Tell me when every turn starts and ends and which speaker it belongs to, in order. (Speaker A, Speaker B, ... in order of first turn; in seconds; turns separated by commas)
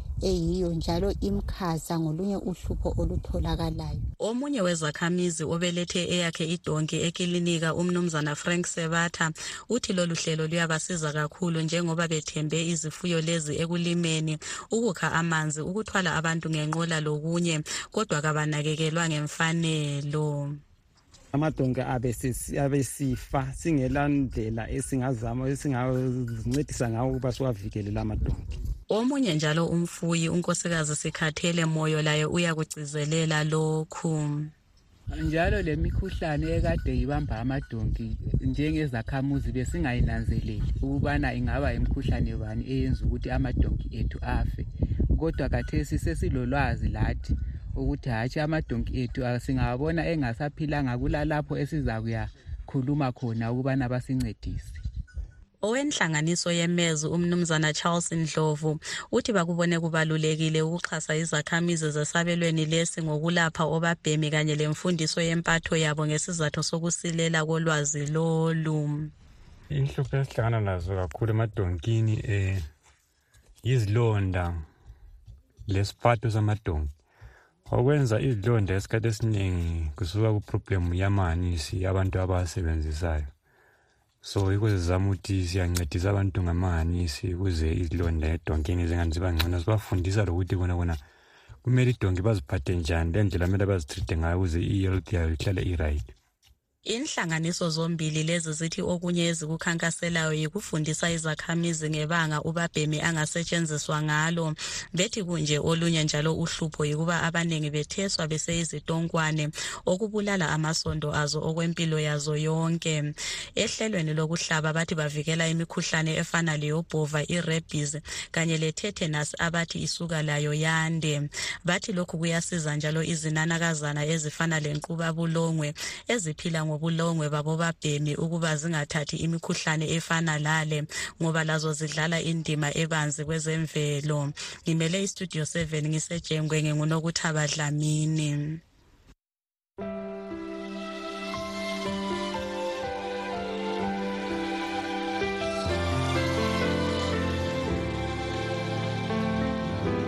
Speaker A: 0.2-4.0, Speaker B: 4.2-20.6, Speaker C: 21.3-28.4, Speaker B: 28.9-34.5, Speaker D: 35.1-54.8, Speaker B: 55.6-69.1, Speaker E: 69.7-72.7, Speaker E: 73.6-74.7, Speaker E: 75.7-76.9, Speaker E: 77.7-83.3, Speaker E: 84.2-91.0, Speaker E: 91.6-96.1, Speaker B: 96.8-138.6